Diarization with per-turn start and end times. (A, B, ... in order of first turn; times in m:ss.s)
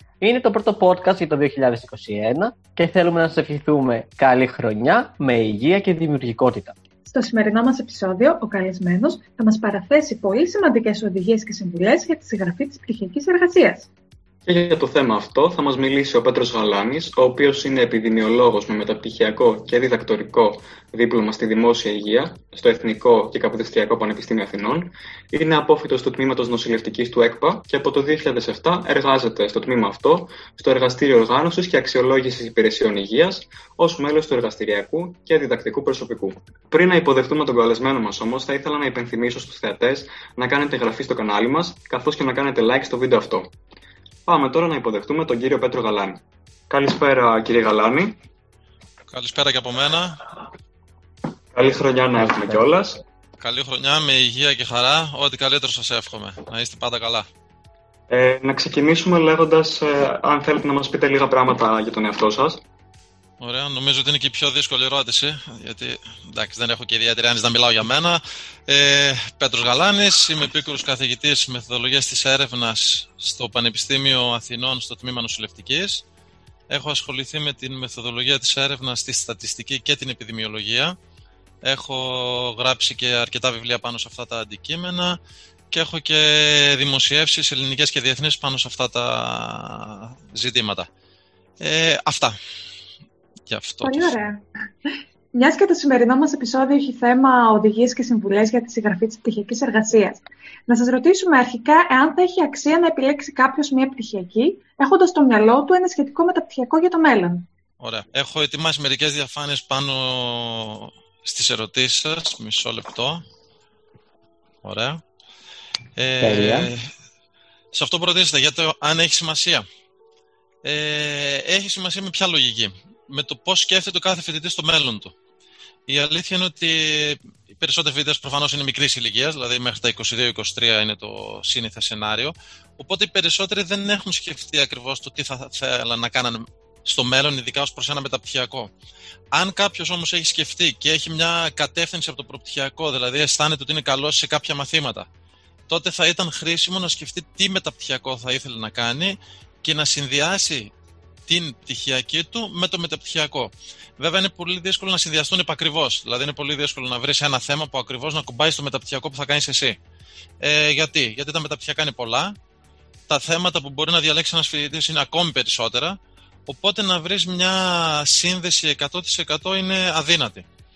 0:00.2-0:06.7 A
0:07.0-0:13.9 B
0:14.4-0:43.5 C
0:44.3-0:48.2 C
0:49.1-0:50.2 D
0:51.5-0:53.0 C
0:53.4-0:57.3 D
0:58.1-1:02.6 C
1:03.4-1:16.0 D
1:16.7-1:21.0 D
1:21.6-1:25.2 D
1:25.7-1:30.9 D
1:31.6-1:32.4 D
1:33.5-1:34.3 D
1:33.8-1:34.4 B
1:35.3-1:47.4 B
1:47.8-1:53.2 D
1:54.6-1:55.0 D
1:56.0-1:56.9 D
1:56.2-1:56.7 A
1:57.7-1:59.6 D
2:00.6-2:05.1 D
2:05.9-2:18.7 D
2:19.3-2:25.1 D
2:25.7-2:30.7 D
2:31.3-2:39.8 D
2:40.4-2:42.3 D
2:43.1-2:50.4 D